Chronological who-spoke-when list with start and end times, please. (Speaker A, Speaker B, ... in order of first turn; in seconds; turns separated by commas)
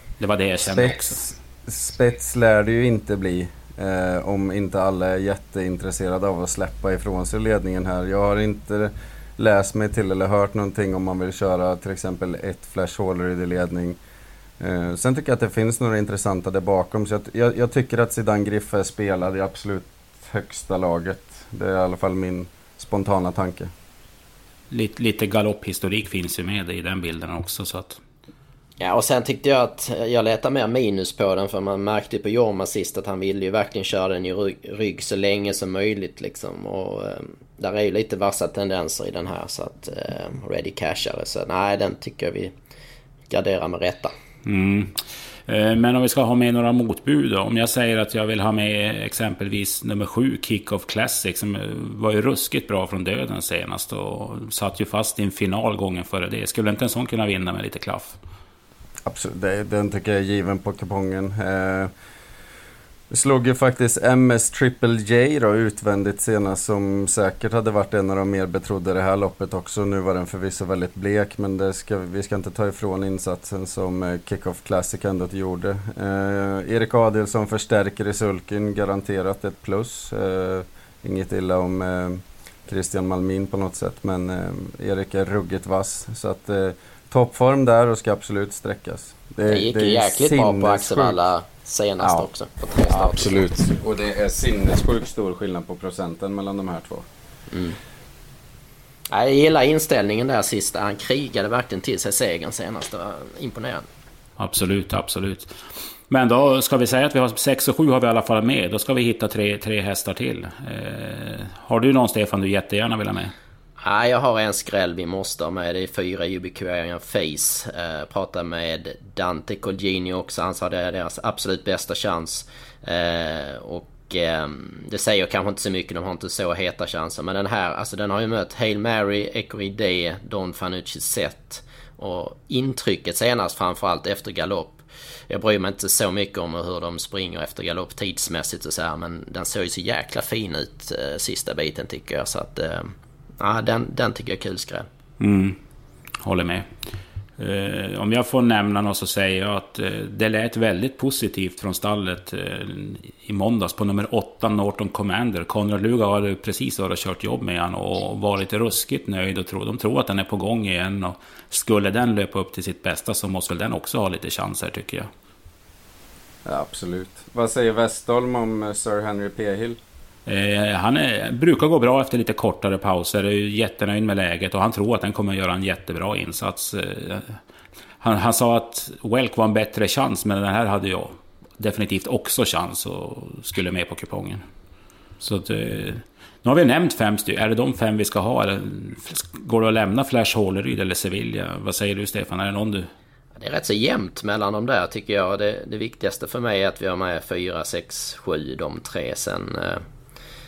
Speaker A: 0.2-1.3, Speaker B: 0.6-14.0, Speaker B: 14.6-23.7, Speaker A: 24.7-28.0, Speaker C: 28.8-42.5, Speaker C: 43.3-44.1, Speaker A: 44.4-58.1, Speaker B: 59.0-61.9, Speaker B: 63.1-91.2, Speaker C: 89.5-93.5, Speaker B: 92.0-92.3, Speaker B: 92.9-97.1, Speaker C: 97.5-97.8, Speaker C: 99.1-103.8, Speaker A: 104.4-113.3, Speaker C: 113.8-144.9, Speaker A: 145.2-145.6, Speaker A: 146.2-146.7, Speaker A: 147.4-165.1, Speaker B: 166.4-169.8, Speaker A: 170.2-177.4, Speaker A: 178.0-184.4, Speaker A: 185.2-192.9, Speaker C: 193.3-199.8